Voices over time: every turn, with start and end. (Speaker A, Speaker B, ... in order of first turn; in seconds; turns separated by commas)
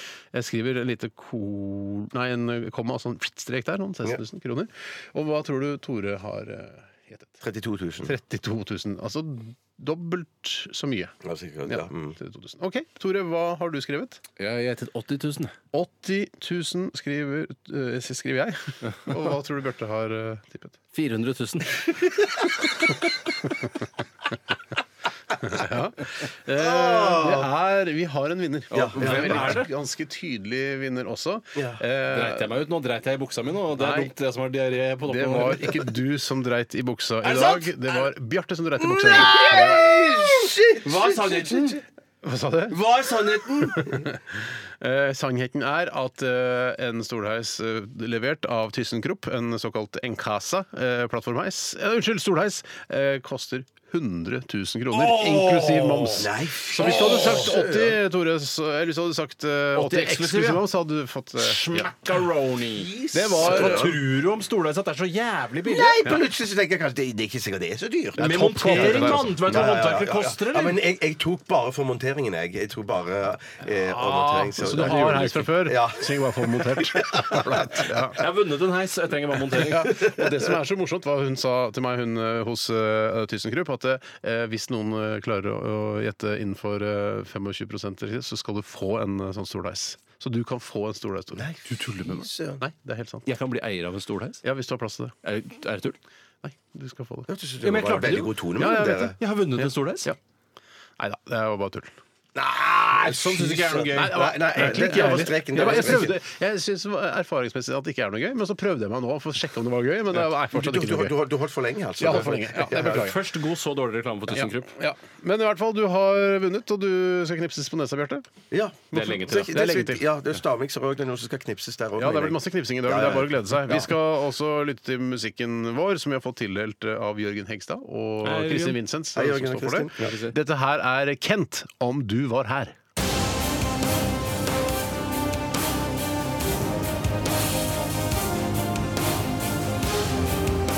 Speaker A: 0.3-7.4, Speaker B: 7.4-8.1, Speaker A: 8.0-11.1, Speaker B: 11.2-12.2, Speaker A: 11.7-14.2, Speaker C: 14.4-15.6, Speaker A: 15.7-20.8, Speaker C: 20.9-22.1, Speaker A: 25.4-32.6, Speaker B: 26.5-27.5, Speaker B: 28.7-29.6, Speaker C: 28.9-29.7, Speaker C: 32.1-35.8, Speaker A: 33.8-34.1, Speaker A: 35.1-40.4, Speaker C: 37.2-37.6, Speaker B: 38.8-41.7, Speaker C: 39.3-39.7, Speaker C: 40.8-41.8, Speaker A: 42.2-42.8, Speaker B: 42.8-44.0, Speaker C: 42.9-43.6, Speaker A: 43.6-61.9, Speaker B: 55.1-58.0, Speaker C: 56.8-57.4, Speaker C: 59.8-60.6, Speaker C: 61.4-66.0, Speaker B: 62.8-64.0, Speaker A: 63.1-64.0, Speaker B: 65.7-77.9, Speaker A: 68.2-69.6, Speaker C: 68.2-70.8, Speaker A: 73.7-78.2, Speaker C: 74.8-75.4, Speaker C: 78.2-80.0, Speaker A: 79.5-91.5, Speaker B: 91.4-92.6, Speaker C: 91.7-92.3, Speaker A: 92.6-93.3, Speaker C: 93.3-94.4, Speaker A: 94.4-95.1, Speaker C: 95.2-96.0, Speaker A: 96.4-97.3, Speaker B: 97.3-99.2, Speaker C: 97.6-98.3, Speaker A: 98.6-100.2, Speaker C: 99.2-100.1, Speaker A: 101.0-101.9, Speaker B: 102.4-106.2, Speaker C: 103.0-105.9, Speaker A: 103.9-111.2, Speaker B: 110.5-113.1, Speaker A: 112.0-113.2, Speaker C: 112.2-114.7, Speaker A: 114.3-118.3, Speaker B: 118.5-123.9, Speaker C: 118.9-119.5, Speaker A: 118.9-120.0, Speaker A: 122.0-132.8, Speaker C: 128.2-128.8, Speaker B: 129.2-130.1, Speaker C: 130.0-130.4